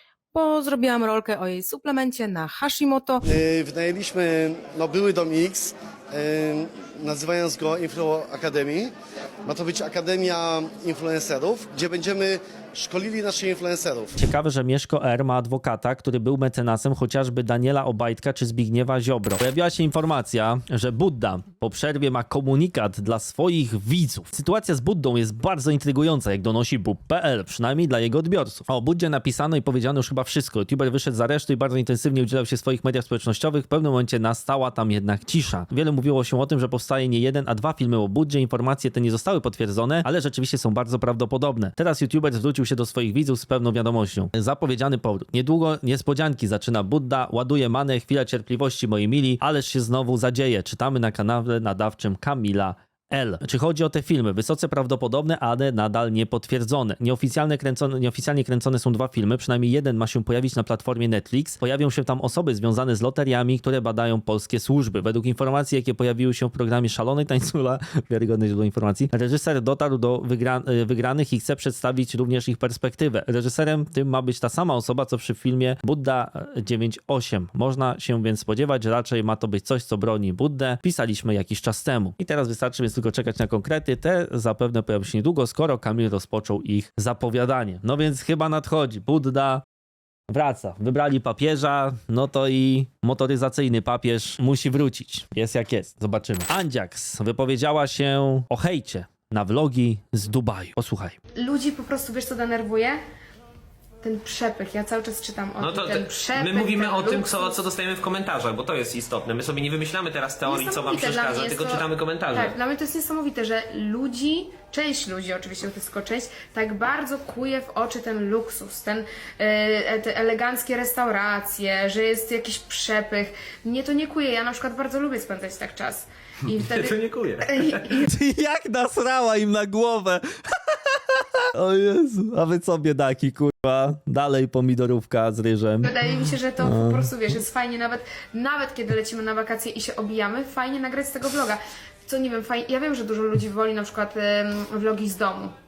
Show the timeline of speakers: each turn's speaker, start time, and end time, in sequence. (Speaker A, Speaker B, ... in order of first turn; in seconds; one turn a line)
Speaker A: 0.3-3.2
Speaker B: 3.2-8.9
Speaker B: 9.5-14.2
Speaker C: 14.2-89.6
Speaker C: 90.3-101.2
Speaker D: 101.4-103.0
Speaker D: 104.0-107.7
Speaker E: 105.6-112.5
Speaker D: 110.5-128.1
Speaker E: 126.5-127.9
Speaker C: 128.0-137.1
Speaker D: 135.8-145.5